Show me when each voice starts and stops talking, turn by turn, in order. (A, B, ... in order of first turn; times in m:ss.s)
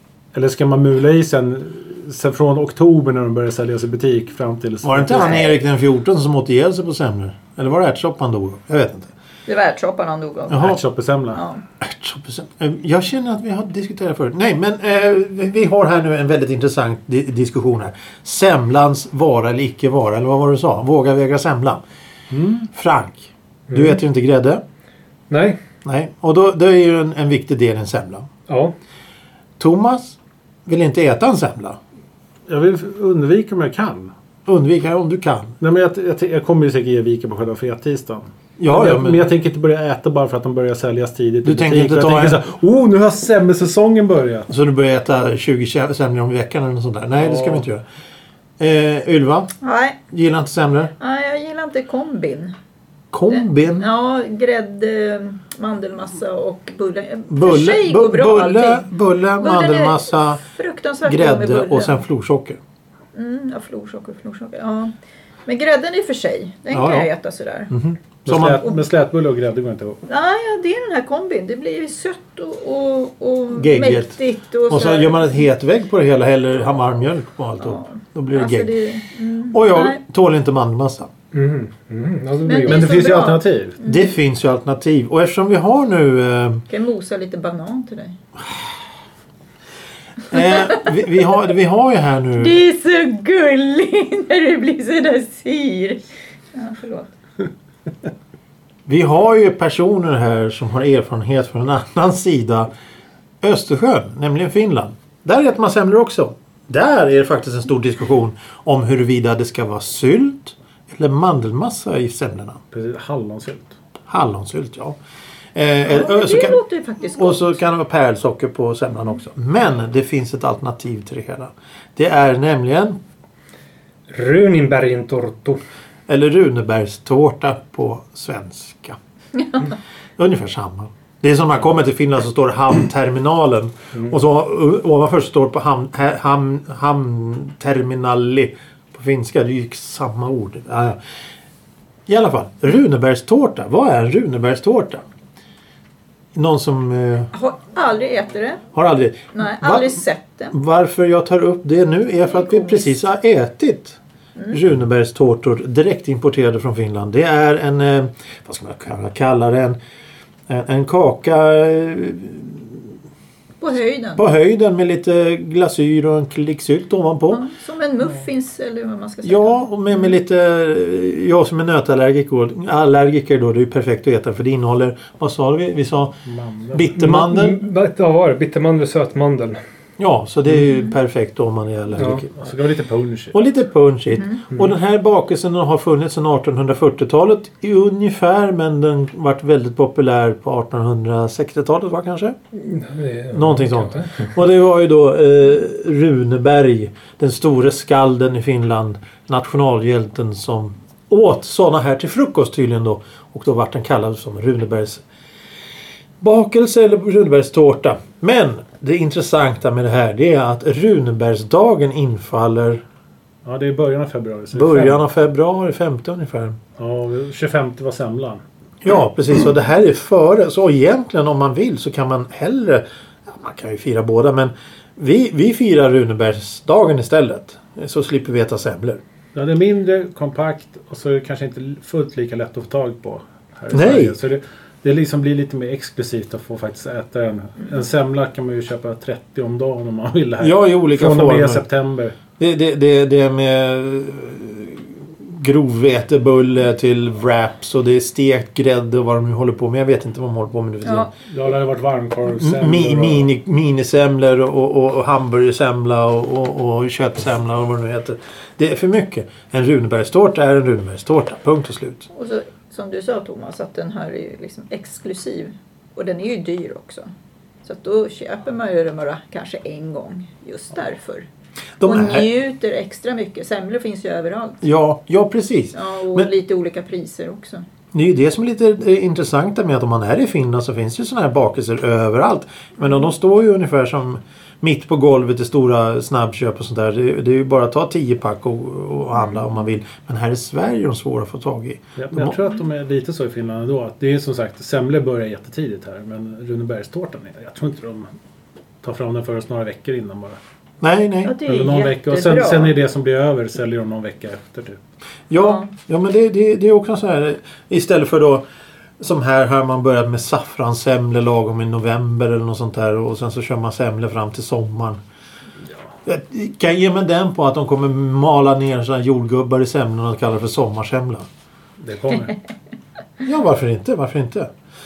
0:00.3-0:05.5 A
0:04.8-0:09.1 B
0:05.1-0:05.6 C
0:09.5-0:10.7 C
0:10.5-0:10.8 B
0:10.6-0:11.4 A
0:11.3-0:11.6 C
0:11.8-0:21.8 B
0:22.3-0:22.7 A
0:22.7-0:24.6 B
0:23.7-0:24.0 D
0:25.3-0:25.6 D
0:25.8-0:28.3 B
0:28.5-0:28.7 D
0:29.6-0:31.8 B
0:32.5-0:34.1 A
0:34.4-0:35.6 B
0:35.6-0:44.5 A
0:38.6-0:39.3 B
0:41.4-0:42.4 B
0:44.5-0:47.8 B
0:47.2-0:47.6 A
0:48.6-0:49.5 B
0:49.6-0:50.0 C
0:50.1-0:50.9 B
0:51.0-0:52.5 C
0:53.1-0:53.9 B
0:53.3-1:02.0 C
0:57.3-1:00.4 B
1:01.0-1:02.6 B
1:03.1-1:04.9 C
1:05.4-1:07.7 C
1:06.7-1:07.1 B
1:07.7-1:08.7 B
1:08.2-1:10.0 A
1:10.1-1:15.4 C
1:13.5-1:18.7 B
1:17.6-1:20.0 C
1:19.5-1:21.1 B
1:21.3-1:23.2 D
1:22.4-1:24.1 C
1:22.7-1:23.8 A
1:23.8-1:26.6 B
1:26.7-1:28.2 C
1:30.3-1:32.6 B
1:30.4-1:30.8 C
1:32.4-1:37.1 C
1:38.8-1:42.7 B
1:43.4-1:52.6 B
1:52.7-1:53.7 A
1:54.1-1:55.0 B
1:55.5-1:56.6 B
1:55.8-1:57.6 C
1:57.1-2:03.0 B
2:04.1-2:05.6 D
2:06.1-2:09.0 B
2:10.2-2:21.0 B
2:22.1-2:25.0 B
2:26.3-2:27.3 B
2:27.3-2:28.6 C
2:28.7-2:34.0 B
2:29.3-2:30.5 C
2:32.3-2:33.0 C
2:34.5-2:39.8 B
2:40.5-2:42.9 B
2:43.6-2:44.2 C
2:44.2-2:47.4 B
2:47.3-2:49.6 C
2:49.2-2:56.2 B
2:56.2-2:56.9 A
2:56.7-2:57.6 B
2:57.0-2:59.6 D
3:00.0-3:02.3 B
3:02.0-3:02.2 D
3:02.0-3:03.4 A
3:03.3-3:12.4 B
3:12.6-3:14.3 D
3:13.3-3:25.0 B
3:26.2-3:32.8 B
3:33.4-3:35.0 A
3:34.5-3:36.6 B
3:36.8-3:38.4 A
3:38.8-3:49.0 B
3:49.3-4:02.2 A
3:53.7-3:54.2 B
4:00.4-4:01.6 B
4:02.4-4:11.1 B
4:10.8-4:11.1 C
4:11.2-4:13.3 A
4:12.4-4:22.1 B
4:22.1-4:27.1 C
4:27.6-4:31.3 C
4:31.8-4:32.3 B
4:31.8-4:34.6 C
4:34.6-4:36.3 B
4:35.7-4:37.6 C
4:37.9-4:52.4 B
4:52.0-4:58.1 A
4:58.8-5:00.4 A
5:00.8-5:01.4 B
5:01.2-5:02.7 C
5:01.4-5:04.8 A
5:05.3-5:08.4 B
5:05.4-5:05.7 C
5:09.0-5:15.0 B
5:16.0-5:21.3 B
5:21.8-5:22.4 A
5:23.2-5:24.5 B